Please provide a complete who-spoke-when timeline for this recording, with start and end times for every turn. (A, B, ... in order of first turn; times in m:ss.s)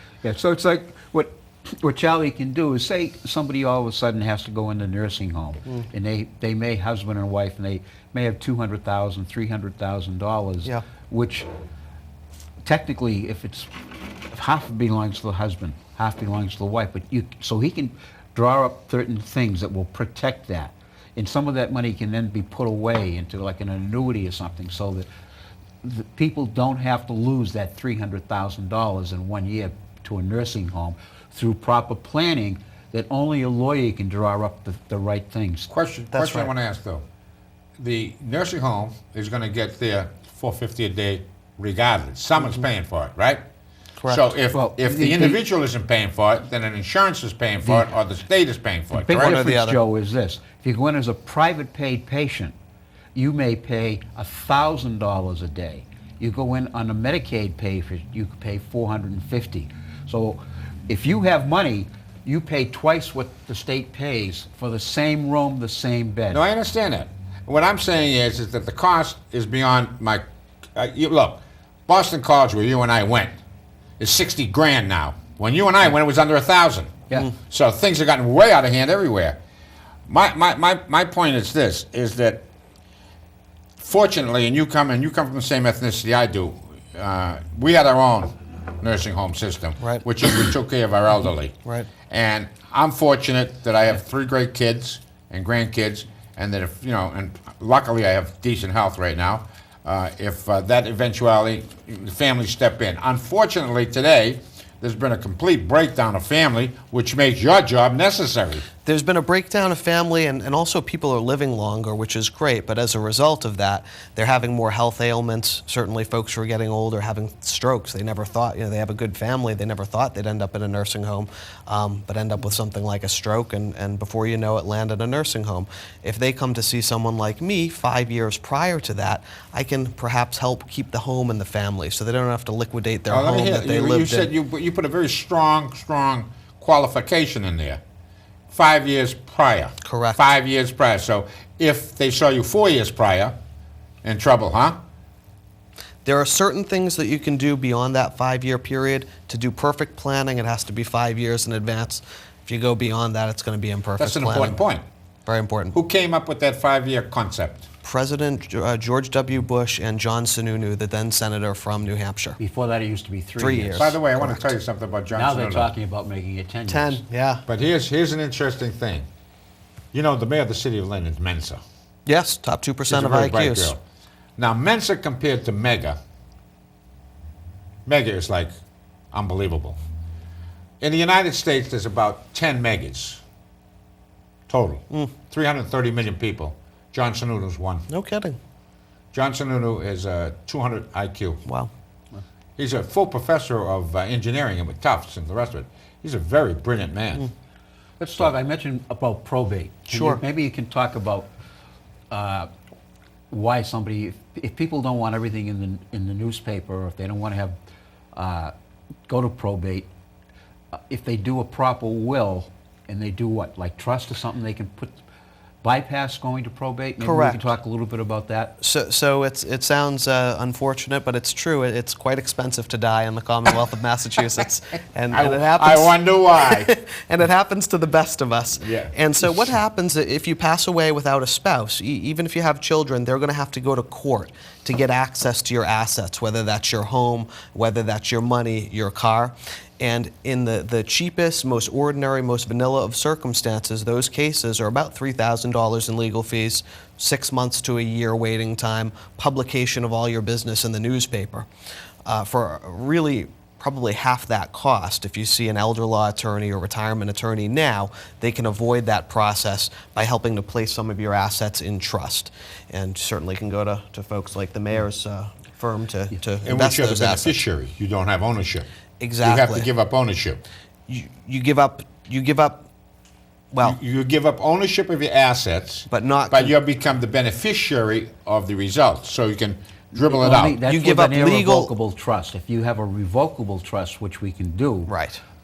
0:00.2-0:11.5 A
0:12.6-0:25.1 A
0:25.8-0:35.7 A
0:35.7-0:37.0 B
0:36.1-0:36.5 C
0:37.8-0:43.4 B
0:44.0-0:44.3 C
0:44.1-0:49.4 B
0:44.5-0:45.4 A
0:47.6-0:47.9 A
0:48.9-0:52.5 A
0:49.2-0:49.8 C
0:53.1-1:06.4 A
1:06.3-1:10.2 B
1:10.7-1:13.4 B
1:14.0-1:19.4 B
1:20.1-1:22.4 B
1:23.8-1:31.6 B
1:32.1-1:48.7 B
1:48.8-2:14.3 C
2:13.1-2:17.8 B
2:18.5-2:23.3 B
2:19.8-2:20.2 C
2:24.0-2:24.8 B
2:26.0-2:34.6 C
2:34.0-2:34.8 B
2:35.3-2:35.8 C
2:35.7-2:37.7 B
2:37.8-2:42.4 C
2:42.4-2:43.9 A
2:43.4-2:44.5 C
2:43.7-2:45.7 B
2:45.1-2:47.0 A
2:46.7-2:47.4 C
2:47.5-2:49.1 B
2:49.9-2:51.6 B
2:52.0-2:53.7 C
2:52.9-2:53.8 B
2:54.4-2:56.0 B
2:57.8-2:58.5 B
2:59.1-2:59.8 B
3:00.8-3:03.2 B
3:04.5-3:07.8 B
3:07.9-3:08.4 C
3:09.1-3:11.4 B
3:12.6-3:17.3 B
3:18.0-3:21.3 A
3:19.9-3:20.2 C
3:22.1-3:22.5 A
3:23.3-3:27.6 A
3:28.1-3:28.5 A
3:29.1-3:29.9 A
3:30.9-3:35.0 A
3:35.6-3:38.6 A
3:37.0-3:37.4 C
3:38.6-4:11.5 C
3:45.1-3:46.7 B
3:48.6-3:48.9 B
4:12.0-4:27.4 C
4:26.4-4:28.7 B
4:29.0-4:29.7 C
4:29.2-4:30.4 B
4:30.9-4:32.6 C
4:33.5-4:33.8 C
4:33.6-4:40.6 B
4:35.9-4:36.5 C
4:39.9-4:44.9 A
4:40.6-4:41.7 C
4:44.9-4:45.2 C